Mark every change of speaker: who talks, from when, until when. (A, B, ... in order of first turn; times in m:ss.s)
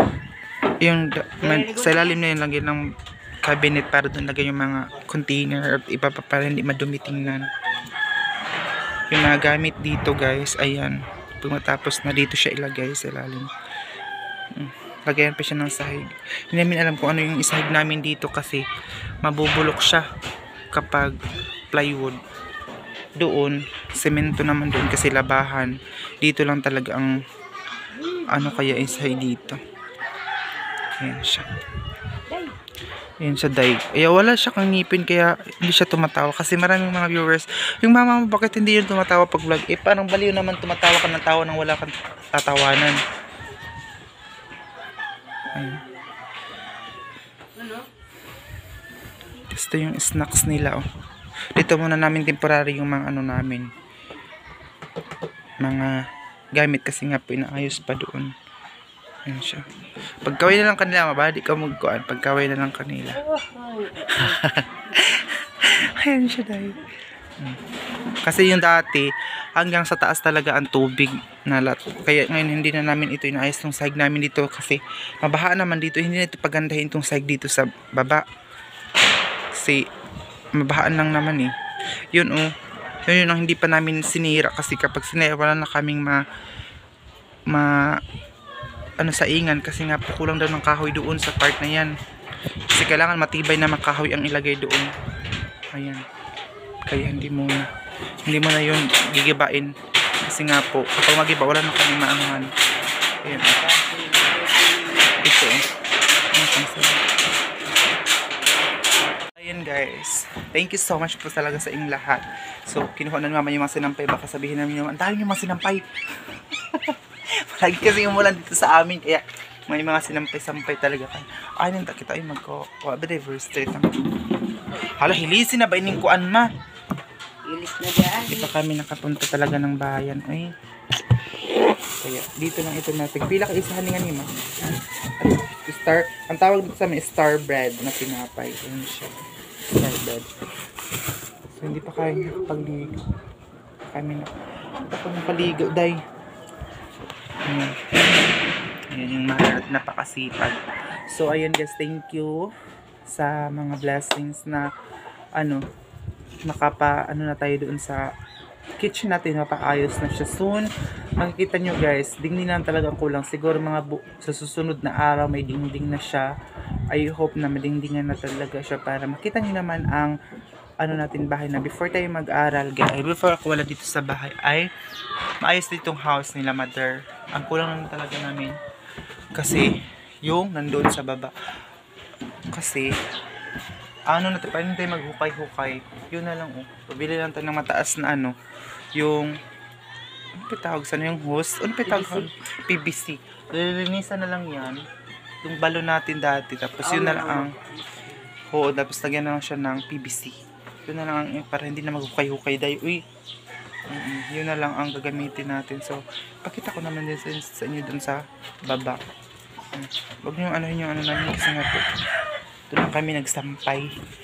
0:00.8-0:02.8 A
0:01.6-0:02.0 B
0:03.4-0:07.5 A
0:09.1-0:13.5 A
0:14.5-0:18.6 A
0:19.2-0:20.0 A
0:20.7-0:21.2 A
0:21.7-0:22.2 A
0:23.2-0:27.2 A
0:28.2-0:29.6 A
0:31.0-0:31.5 A
0:33.2-0:43.0 A
0:45.5-0:45.8 A
0:49.5-0:50.8 A
0:51.5-0:53.7 A
0:55.6-0:56.0 A
0:56.5-0:58.3 A
0:59.3-0:59.7 A
1:00.2-1:06.8 A
1:03.5-1:03.8 B
1:08.2-1:18.2 A
1:19.5-1:19.8 A
1:20.6-1:21.5 A
1:22.1-1:22.5 A
1:23.1-1:26.2 A
1:27.5-1:28.0 A
1:29.0-1:31.9 A
1:32.7-1:34.9 A
1:35.7-1:36.0 A
1:36.9-1:37.7 A
1:38.3-1:42.5 A
1:43.2-1:43.8 A
1:43.6-1:45.0 B
1:45.0-1:45.6 A
1:46.3-1:47.0 A
1:49.4-2:03.9 A
2:04.9-2:06.5 A
2:07.4-2:08.4 B
2:08.2-2:10.5 A
2:12.0-2:14.3 A
2:15.2-2:19.1 A
2:19.8-2:20.3 A
2:21.6-2:22.9 A
2:23.9-2:26.0 A
2:27.4-2:27.8 A
2:28.9-2:32.5 A
2:33.1-2:34.7 A
2:35.4-2:35.6 A
2:36.4-2:38.0 A
2:38.8-2:46.3 A
2:46.9-2:50.1 A
2:50.8-2:54.7 A
2:55.4-2:58.6 A
2:59.3-2:59.7 A
3:00.2-3:01.3 A
3:02.5-3:02.9 A
3:04.1-3:08.3 A
3:08.9-3:09.4 A
3:10.4-3:14.8 A
3:15.4-3:17.6 A
3:18.5-3:23.0 A
3:23.9-3:29.0 A
3:29.7-3:31.9 A
3:32.7-3:33.9 A